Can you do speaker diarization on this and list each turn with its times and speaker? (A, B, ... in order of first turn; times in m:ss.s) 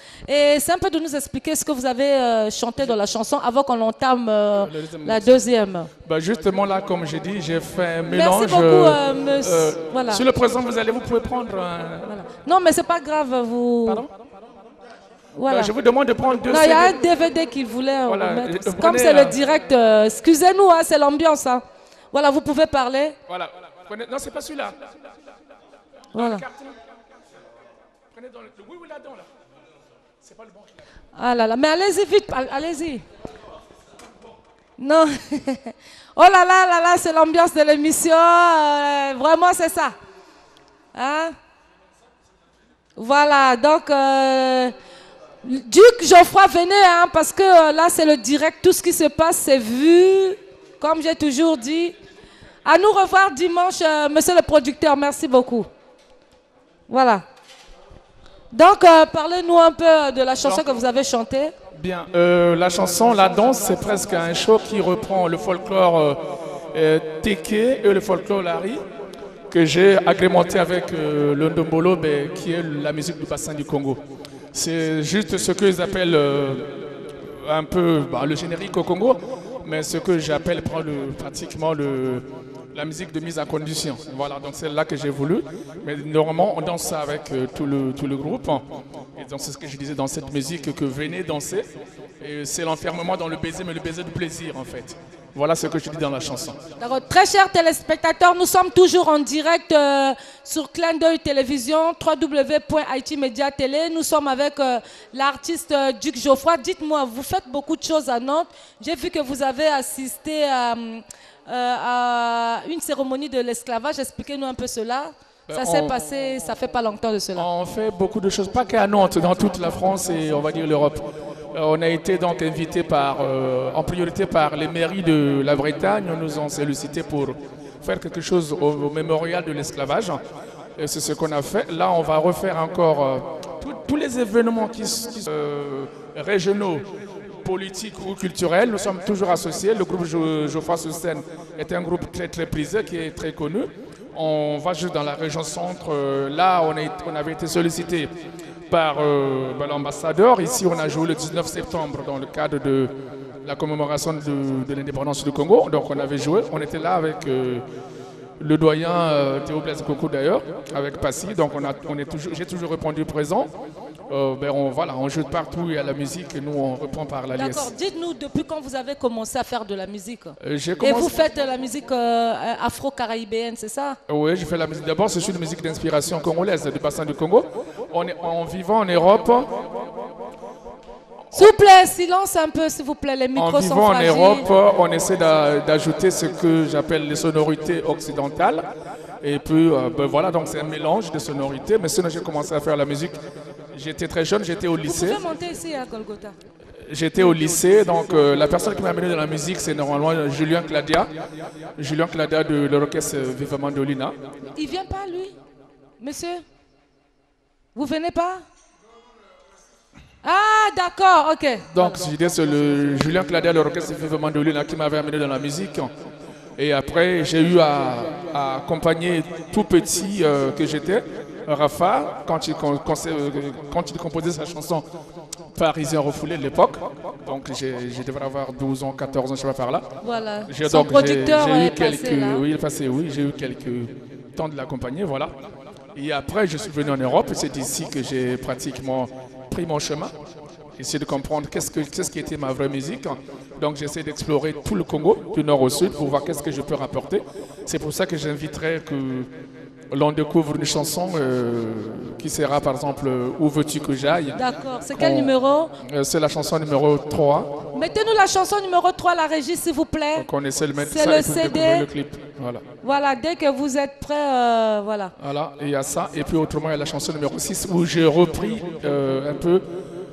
0:00.3-0:05.9 A
0:04.6-0:05.4 B
0:06.0-0:12.1 B
0:08.1-0:10.2 A
0:12.0-0:14.0 A
0:15.4-0:15.7 A
0:15.5-0:17.0 B
0:16.5-0:23.2 A
0:18.1-0:19.4 B
0:23.3-0:24.8 B
0:26.1-0:26.4 A
0:26.1-0:26.8 B
0:28.1-0:29.3 B
0:30.2-0:30.7 B
0:31.1-0:33.0 A
0:34.8-0:40.0 A
0:40.9-0:41.4 A
0:43.0-0:44.8 A
0:45.4-0:52.0 A
0:52.6-0:55.7 A
0:56.9-0:57.2 A
0:58.5-1:01.5 A
1:01.7-1:06.2 B
1:06.7-1:08.8 B
1:09.5-1:14.0 B
1:14.5-1:31.6 B
1:32.2-1:36.6 B
1:36.8-1:57.5 A
1:55.5-1:56.0 B
1:57.4-2:10.2 B
2:10.8-2:16.8 B
2:17.4-2:28.1 B
2:28.7-2:37.6 B
2:38.4-2:43.5 B
2:44.1-2:47.7 B
2:47.3-2:54.0 A
2:50.4-2:51.1 B
2:54.1-2:59.5 B
3:01.3-3:04.4 A
3:03.4-3:08.6 B
3:09.2-3:13.2 B
3:13.7-3:15.2 B
3:14.8-3:16.4 A
3:16.8-3:21.1 B
3:21.8-3:24.1 B
3:24.6-3:25.4 A
3:26.0-3:26.4 A
3:27.8-3:28.4 A
3:30.2-3:32.0 A
3:31.7-3:35.9 B
3:36.6-3:44.9 B
3:45.5-3:49.9 B
3:50.0-3:52.4 A
3:50.5-3:55.3 B
3:56.0-4:00.1 B
4:00.8-4:09.3 B
4:09.9-4:17.6 B
4:14.4-4:15.7 A
4:17.7-4:21.9 A
4:20.1-4:22.6 B
4:22.8-4:25.1 A
4:25.2-4:29.6 B